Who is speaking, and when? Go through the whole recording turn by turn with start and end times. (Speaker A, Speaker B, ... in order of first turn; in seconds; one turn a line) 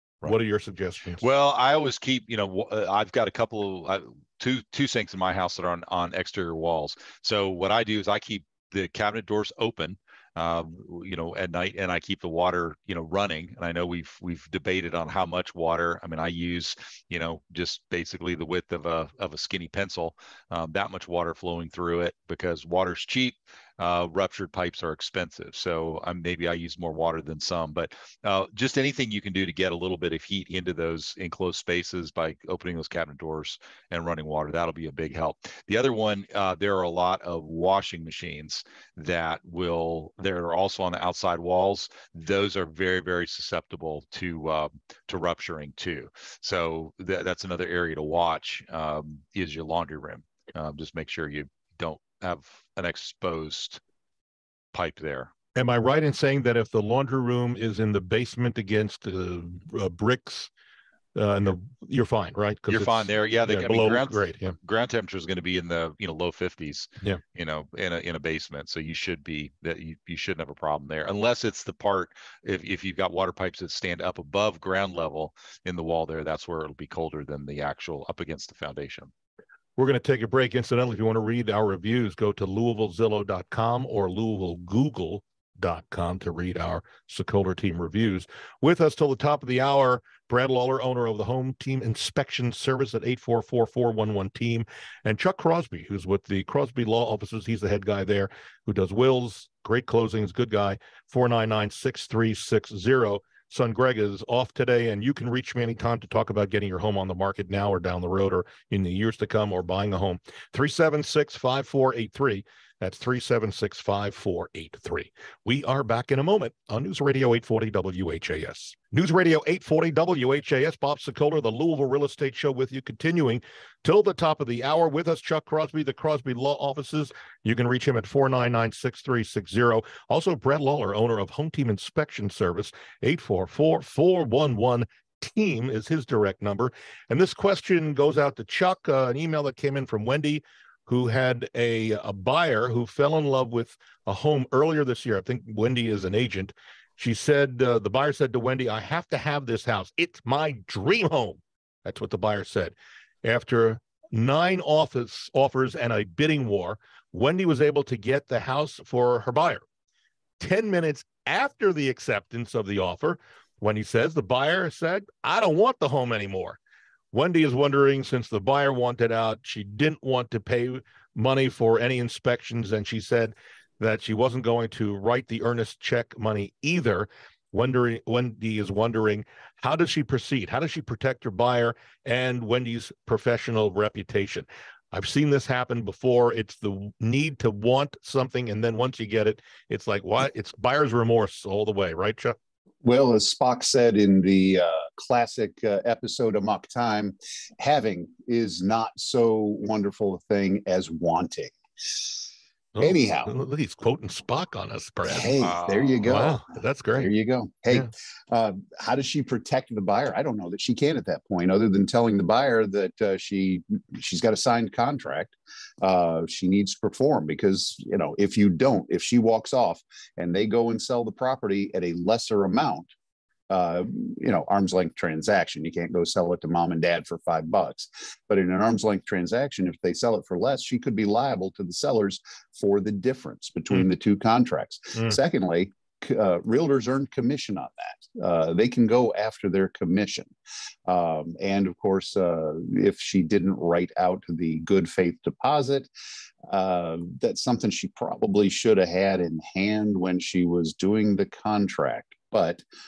Speaker A: 0.2-1.2
Speaker B: 1.2-53.8
Speaker B: 54.7-55.3
Speaker A: 55.5-60.5
Speaker A: 61.1-64.5
Speaker B: 62.7-79.1
Speaker A: 79.8-159.6
Speaker A: 160.4-166.6
Speaker A: 167.1-192.3
Speaker C: 192.8-202.1
Speaker A: 202.8-205.3
Speaker C: 202.8-203.3
Speaker C: 205.1-206.4
Speaker B: 205.4-206.1
Speaker A: 206.1-207.1
Speaker C: 206.9-222.9
Speaker C: 223.5-240.3
Speaker C: 240.9-245.9
Speaker C: 246.5-252.6